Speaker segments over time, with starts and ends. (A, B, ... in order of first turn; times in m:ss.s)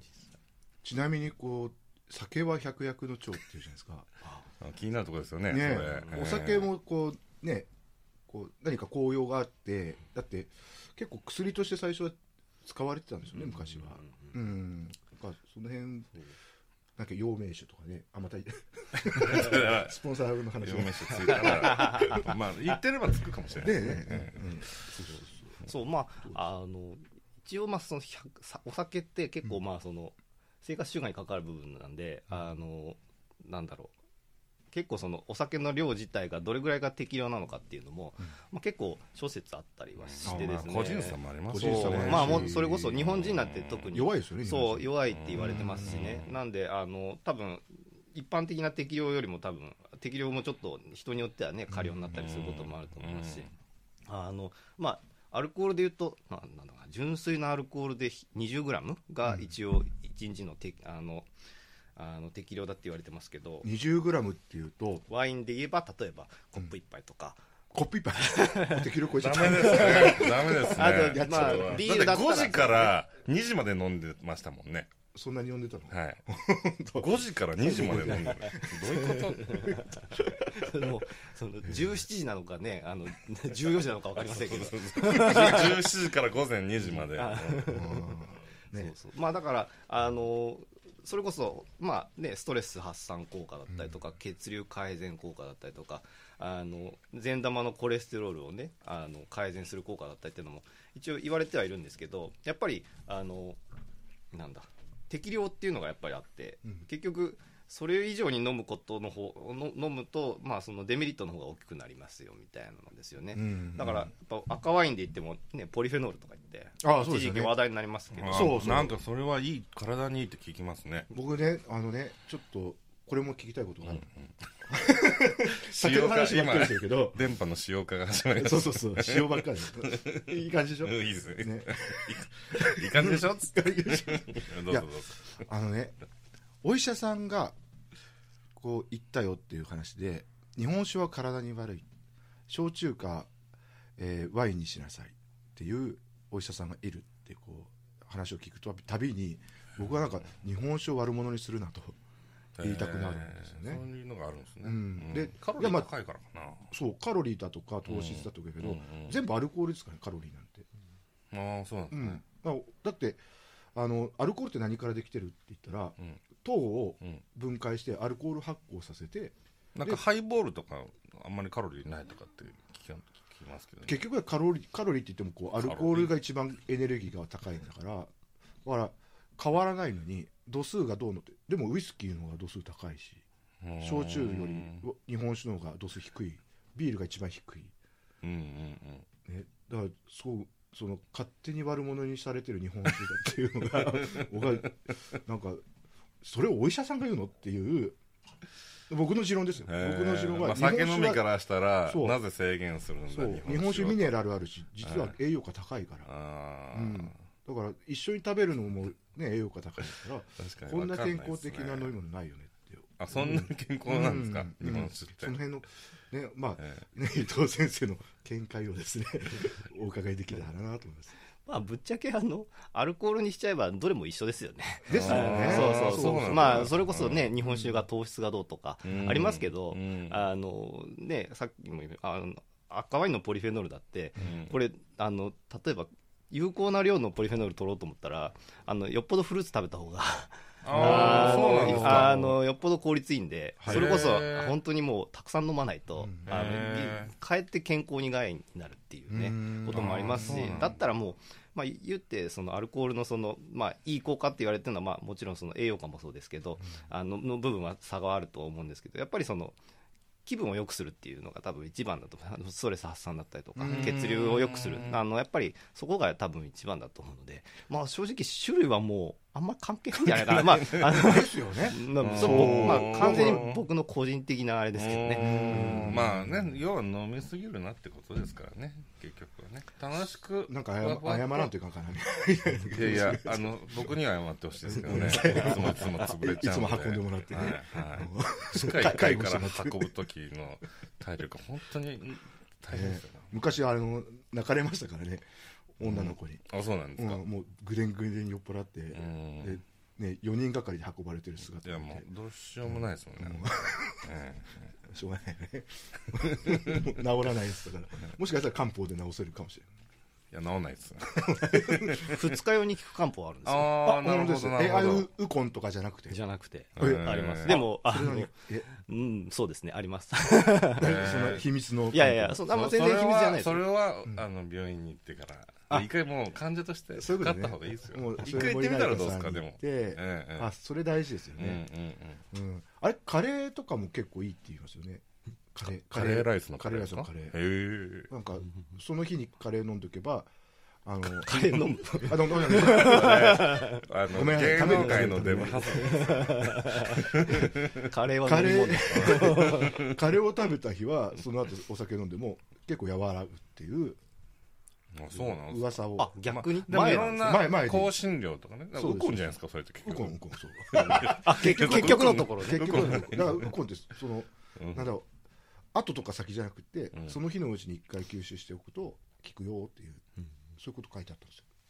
0:00.8-0:04.1 A
0:04.6-0:06.7 B
0:05.5-0:07.7 A
0:05.9-0:06.2 C
0:08.3-0:16.2 A
0:13.4-0:14.3 C
0:17.0-0:22.3 A
0:19.0-0:20.0 B
0:20.6-0:24.5 B
0:21.2-0:22.3 C
0:23.6-0:25.5 A
0:25.6-0:33.9 C
0:34.7-0:53.5 C
0:40.0-0:43.9 B
0:40.2-0:40.6 A
0:41.5-0:42.9 A
0:43.9-0:46.2 A
0:45.1-0:46.4 B
0:51.7-0:52.1 A
0:52.1-0:53.5 B
0:54.1-1:01.3 C
0:59.2-0:59.5 A
1:02.0-1:03.7 C
1:03.6-1:05.0 A
1:05.1-1:07.4 C
1:07.7-1:11.9 A
1:08.2-1:08.9 C
1:09.1-1:14.9 B
1:09.5-1:13.0 C
1:15.1-1:20.7 A
1:15.9-1:16.2 B
1:17.0-1:19.8 B
1:18.4-1:25.9 C
1:24.2-1:28.0 B
1:27.0-1:28.2 C
1:27.7-1:28.9 A
1:28.7-1:43.6 C
1:33.7-1:34.0 A
1:44.3-1:58.8 C
1:53.3-1:54.1 A
1:56.8-1:57.6 A
1:58.2-2:01.1 B
1:58.3-1:59.0 A
2:01.1-2:04.1 A
2:03.9-2:04.1 B
2:04.7-2:07.2 A
2:05.5-2:15.4 B
2:08.4-2:16.0 A
2:16.6-2:17.6 A
2:18.6-2:21.9 A
2:22.5-2:23.3 A
2:24.0-2:32.0 A
2:32.6-2:36.7 B
2:32.6-2:33.8 A
2:34.6-2:35.9 A
2:36.7-2:40.7 A
2:37.9-2:39.2 B
2:41.3-2:42.2 B
2:41.9-2:43.2 A
2:43.7-2:50.0 A
2:49.8-2:54.0 B
2:53.8-2:58.1 A
2:55.6-2:56.1 B
2:58.6-3:03.2 A
3:03.6-3:04.8 B
3:03.8-3:07.7 A
3:08.2-3:09.1 B
3:09.3-3:15.6 A
3:13.8-3:14.7 B
3:16.2-3:18.0 A
3:18.9-3:21.3 A
3:19.6-3:24.2 B
3:21.8-3:22.2 A
3:23.1-3:26.1 A
3:24.8-3:25.1 B
3:26.1-3:27.2 B
3:26.7-3:41.2 A
3:29.8-3:32.0 B
3:33.0-3:35.4 B
3:36.6-3:36.8 B
3:41.5-4:19.6 C
3:44.8-3:46.7 A
3:44.9-3:47.3 B
3:47.4-3:47.7 A
3:48.8-3:50.2 B
3:54.2-3:54.6 B
4:00.6-4:02.3 B
4:00.7-4:02.4 A
4:03.6-4:04.2 A
4:03.6-4:04.6 B
4:06.0-4:06.5 A
4:06.3-4:07.1 B
4:09.1-4:10.6 A
4:09.7-4:10.8 B
4:20.2-4:35.9 C
4:23.6-4:23.9 A
4:23.7-4:25.0 B
4:30.0-4:31.0 B
4:30.9-4:33.4 A
4:32.0-4:33.6 B
4:34.8-4:41.5 B
4:35.2-4:36.6 A
4:40.5-4:44.0 A
4:42.6-4:53.4 B
4:44.6-4:50.0 A
4:52.7-4:55.3 A
4:55.8-4:56.4 A
4:55.8-4:57.2 B
4:57.0-5:02.1 A
4:58.9-4:59.6 B
5:01.6-5:04.7 B
5:02.7-5:04.1 A
5:04.9-5:09.7 A
5:06.3-5:06.8 B
5:10.3-5:12.4 B
5:11.2-5:12.0 A
5:12.0-5:13.8 C
5:13.4-5:15.1 B
5:13.8-5:16.2 A
5:16.1-5:21.1 C
5:16.8-5:17.6 B
5:16.8-5:18.7 A
5:20.8-5:22.4 A
5:20.8-5:21.4 B
5:21.9-5:23.6 C
5:22.4-5:30.5 B
5:27.0-5:31.6 A
5:31.4-5:32.2 B
5:32.3-5:37.4 A
5:35.9-5:38.1 B
5:38.1-5:40.3 A
5:40.8-5:41.4 A
5:41.2-5:43.9 C
5:42.0-5:46.2 A
5:42.7-5:47.9 B
5:44.6-5:49.8 C
5:47.2-5:47.5 A
5:48.2-5:54.0 A
5:48.9-5:50.0 B
5:54.9-6:00.2 B
5:55.1-5:56.1 A
5:56.0-5:57.4 C
5:56.9-5:57.9 A
5:58.8-6:05.1 A
6:00.7-6:03.5 B
6:00.8-6:03.1 C
6:04.6-6:04.9 B
6:05.7-6:11.5 A